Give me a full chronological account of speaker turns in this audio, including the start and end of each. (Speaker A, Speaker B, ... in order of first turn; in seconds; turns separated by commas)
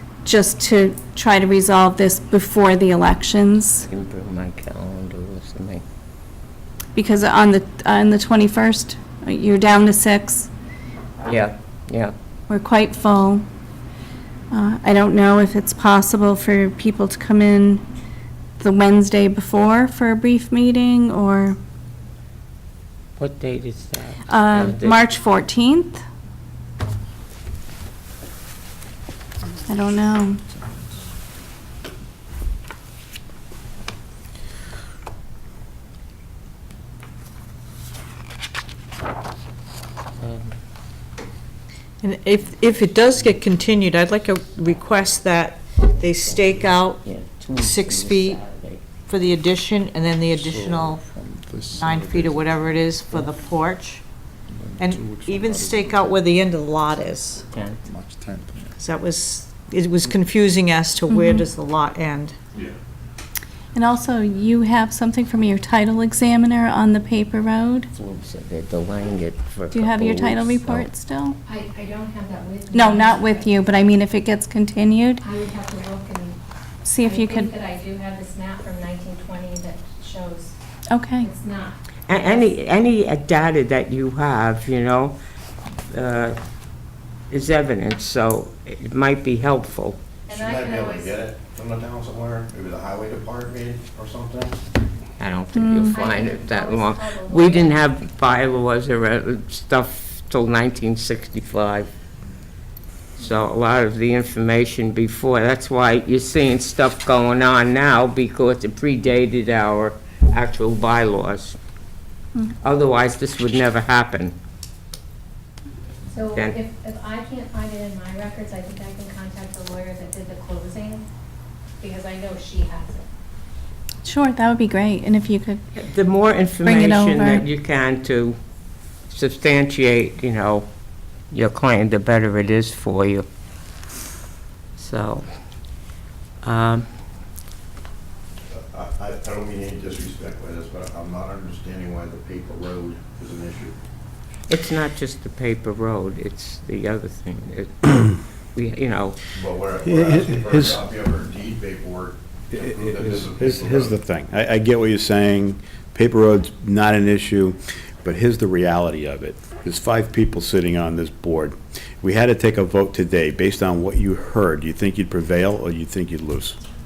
Speaker A: 0.2-3.8, Speaker B: 3.8-5.8, Speaker A: 7.0-10.5, Speaker B: 11.2-12.1, Speaker A: 12.5-13.4, Speaker A: 14.5-17.8, Speaker A: 18.6-21.6, Speaker B: 23.2-25.0, Speaker A: 24.3-26.0, Speaker A: 29.7-30.4, Speaker B: 40.2-40.5, Speaker C: 42.0-47.0, Speaker B: 46.0-48.9, Speaker C: 47.5-48.4, Speaker C: 49.0-51.0, Speaker D: 50.3-53.4, Speaker C: 51.7-54.0, Speaker D: 54.7-56.2, Speaker C: 54.8-57.4, Speaker B: 57.5-57.8, Speaker D: 57.8-58.9, Speaker C: 58.8-62.4, Speaker A: 61.1-61.5, Speaker A: 63.7-67.9, Speaker B: 67.9-70.9, Speaker A: 69.7-71.4, Speaker E: 71.5-73.5, Speaker A: 72.7-75.2, Speaker E: 75.2-76.4, Speaker A: 76.8-77.5, Speaker E: 77.0-80.5, Speaker A: 80.9-81.3, Speaker E: 81.2-81.8, Speaker B: 82.1-85.2, Speaker B: 85.9-86.4, Speaker B: 87.3-90.0, Speaker E: 90.3-91.1, Speaker F: 90.3-94.6, Speaker B: 95.2-101.9, Speaker A: 95.5-96.0, Speaker E: 95.8-97.8, Speaker B: 103.2-111.6, Speaker B: 112.6-114.3, Speaker E: 116.1-121.0, Speaker E: 121.8-123.1, Speaker A: 124.0-125.6, Speaker B: 125.8-128.4, Speaker A: 126.6-127.4, Speaker B: 129.1-130.7, Speaker B: 131.3-133.2, Speaker B: 134.8-135.2, Speaker B: 136.4-136.9, Speaker F: 138.5-143.7, Speaker B: 144.5-149.2, Speaker F: 149.3-154.0, Speaker G: 149.8-150.8, Speaker G: 152.5-166.6